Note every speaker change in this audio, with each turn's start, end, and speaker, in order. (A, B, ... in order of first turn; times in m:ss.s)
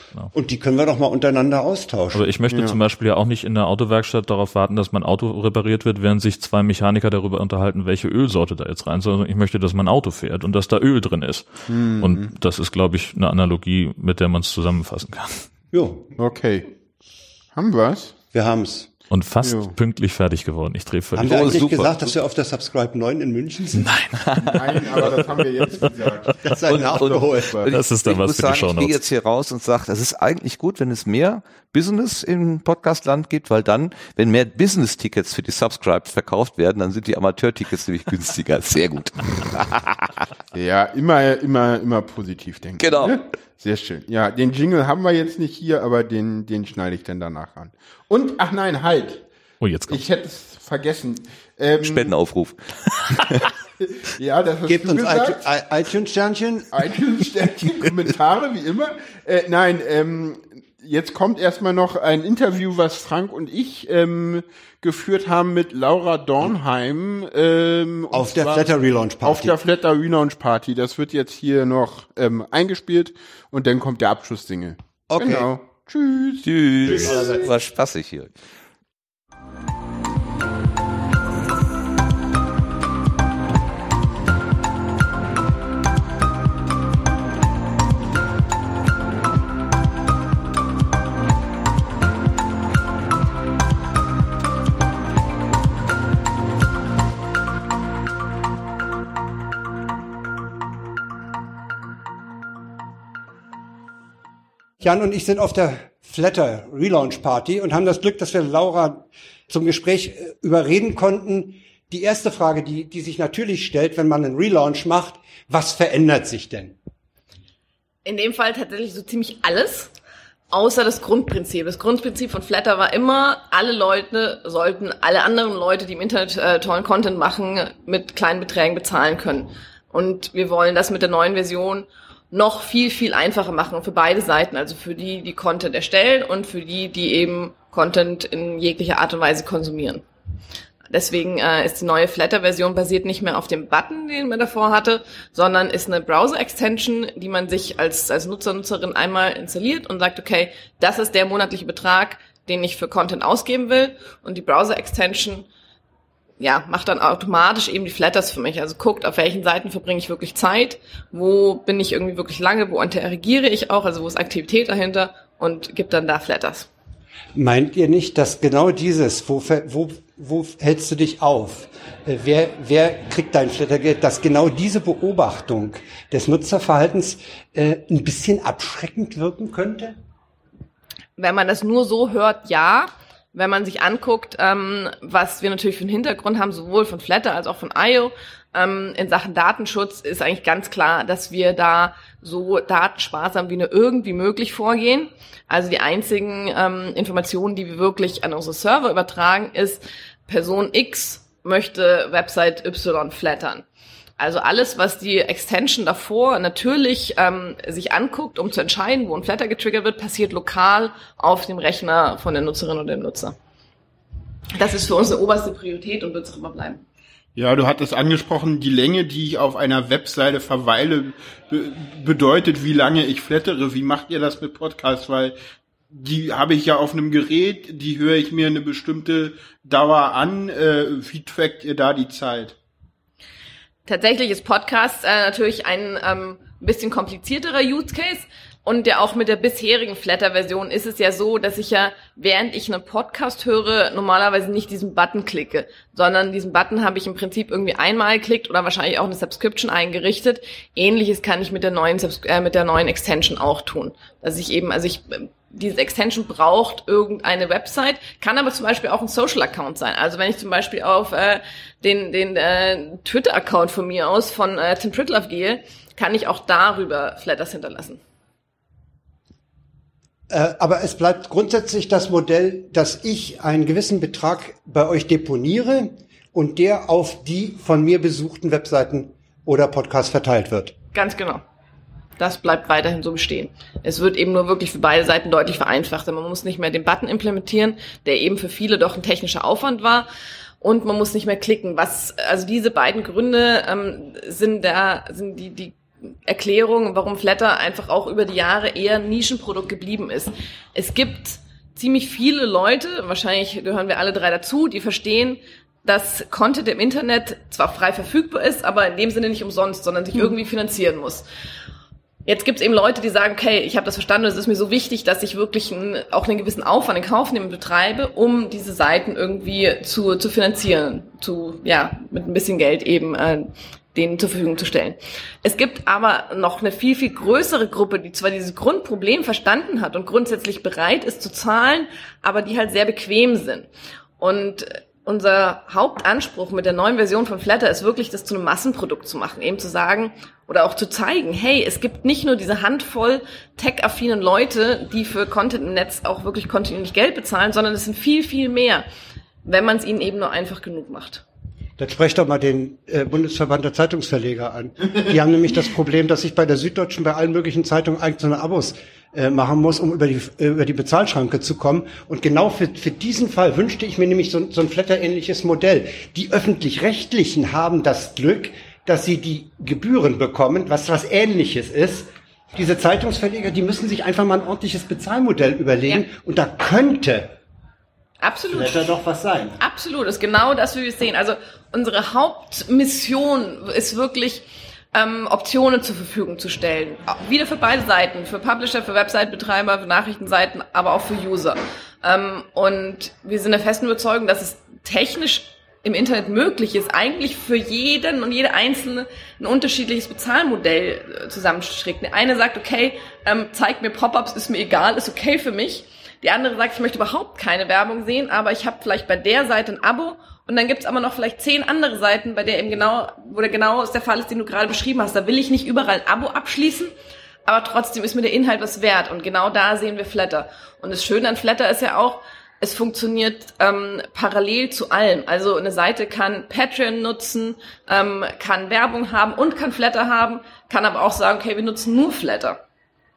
0:00.3-0:02.3 A
0:02.1-0:15.4 B
0:02.5-0:02.8 C
0:11.7-0:12.3 C
0:15.7-0:16.1 A
0:16.2-0:16.7 C
0:17.5-0:18.1 C
0:18.3-0:18.9 A
0:19.1-0:21.6 B
0:19.4-0:19.7 C
0:21.2-0:23.9 A
0:21.2-0:22.1 D
0:23.7-0:25.9 B
0:24.2-0:25.2 D
0:24.4-0:27.7 C
0:26.4-0:27.6 A
0:26.6-0:40.1 D
0:27.7-0:29.0 B
0:40.5-0:49.2 C
0:42.8-0:43.2 D
0:49.6-0:50.0 B
0:49.9-0:52.1 C
0:51.8-0:52.6 D
0:53.1-0:53.5 D
0:53.8-0:55.4 C
0:54.6-0:56.9 A
0:56.7-1:08.7 C
1:08.1-1:09.6 A
1:09.2-1:17.4 C
1:15.1-1:15.5 A
1:16.4-1:18.3 D
1:16.8-1:17.4 A
1:44.8-1:56.8 A
1:58.0-1:59.9 E
2:00.5-2:20.0 E
2:20.9-2:35.5 E
2:36.4-2:46.7 E
2:47.3-3:00.0 A
3:01.2-3:23.6 E
3:24.2-3:33.4 E
3:34.5-3:36.8 E
3:37.4-3:45.4 C
3:45.9-3:52.6 C
3:53.8-4:28.0 E
4:30.3-4:40.8 A
4:40.9-4:41.4 E
4:42.2-4:50.1 E
4:50.6-5:11.2 E
5:12.2-5:48.9 E
5:49.4-5:51.2 E
5:51.8-6:17.4 A
6:18.2-6:18.9 E
6:18.5-6:19.6 A
6:19.6-6:56.9 E
6:57.4-7:12.6 E